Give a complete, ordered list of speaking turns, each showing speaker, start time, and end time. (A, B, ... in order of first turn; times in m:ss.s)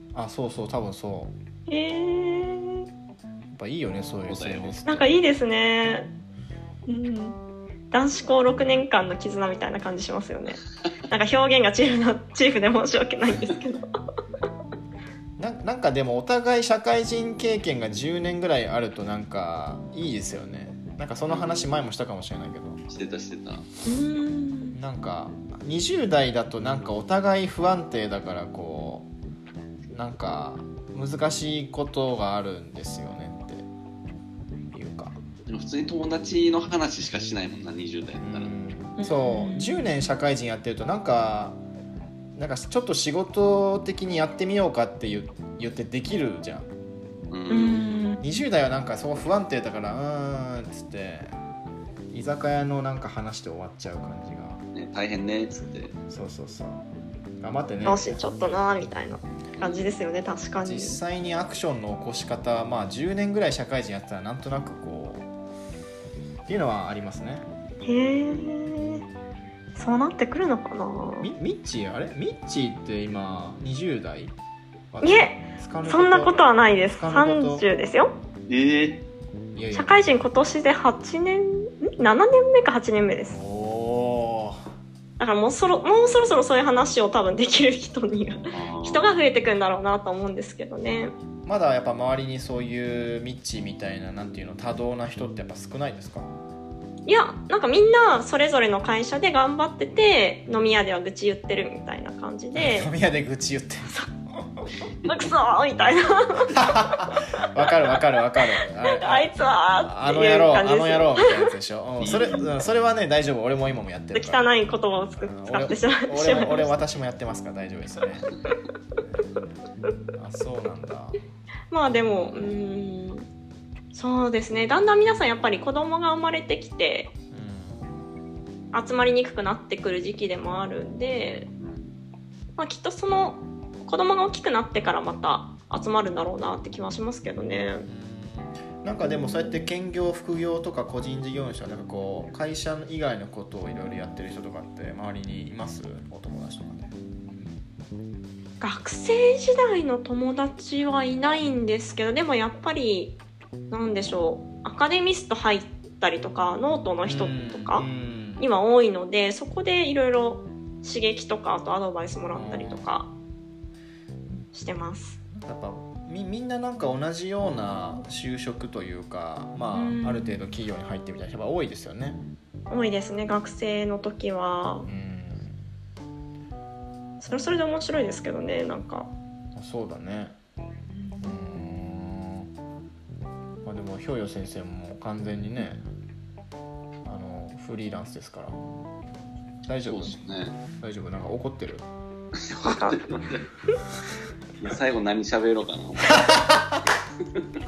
0:00.1-0:01.3 A
0:01.7-0:02.8 B
0:03.5-0:05.2 A
0:04.3-0:04.8 C
0:04.9-0:06.1 B
0:06.9-0:07.4 B
0:07.9-0:13.8 B
0:15.4-0:22.8 A
0:21.3-0:21.7 C
0:22.9-0:23.6 C
0:23.8-0:24.8 B
0:24.7-0:29.1 A
0:29.9-0:33.7 A
0:34.7-0:35.2 A
0:35.5-0:38.5 C
0:38.2-0:41.6 A
0:39.0-0:39.9 B
0:42.4-0:46.7 A
0:47.3-0:47.9 C
0:47.5-0:48.2 B
0:48.2-0:51.3 A
0:52.1-0:54.6 A
0:54.7-0:56.0 C
0:56.1-0:56.8 A
0:57.4-0:58.2 A
0:57.8-1:01.0 B
0:59.6-0:59.9 C
1:00.6-1:05.3 A
1:06.5-1:07.5 A
1:07.8-1:09.0 B
1:08.3-1:08.6 C
1:09.8-1:11.3 B
1:11.2-1:14.3 A
1:14.9-1:16.4 A
1:15.0-1:18.1 B
1:17.0-1:17.7 A
1:18.5-1:19.0 C
1:19.6-1:20.0 A
1:19.7-1:23.4 B
1:23.3-1:24.6 A
1:25.2-1:31.1 B
1:28.5-1:29.1 C
1:31.5-1:36.3 A
1:37.1-1:42.9 B
1:42.6-1:44.5 A
1:45.0-1:46.6 B
1:46.5-1:49.3 A
1:48.8-1:51.4 B
1:49.8-1:54.4 A
1:52.0-1:52.5 C
1:54.1-1:56.7 B
1:55.2-1:58.3 A
2:00.2-2:01.2 A
2:01.7-2:03.3 B
2:03.9-2:07.1 B
2:07.3-2:07.9 A
2:08.7-2:11.5 B
2:11.6-2:12.0 C
2:12.6-2:17.9 B
2:17.9-2:27.4 A
2:28.6-2:33.2 B
2:33.7-2:37.9 B
2:37.0-2:38.5 A
2:38.4-2:43.1 B
2:42.3-2:43.0 A
2:44.5-2:45.2 B
2:45.4-2:52.2 A
2:49.7-2:50.4 B
2:52.7-2:54.9 B
2:54.9-2:55.6 A
2:57.2-2:59.1 B
2:59.6-3:00.4 A
3:00.9-3:01.3 B
3:01.2-3:02.5 A
3:03.6-3:05.8 A
3:07.0-3:08.6 A
3:09.6-3:10.2 A
3:09.9-3:10.6 C
3:10.8-3:11.9 A
3:12.4-3:13.4 C
3:12.6-3:13.1 B
3:14.6-3:16.4 C
3:16.1-3:16.8 A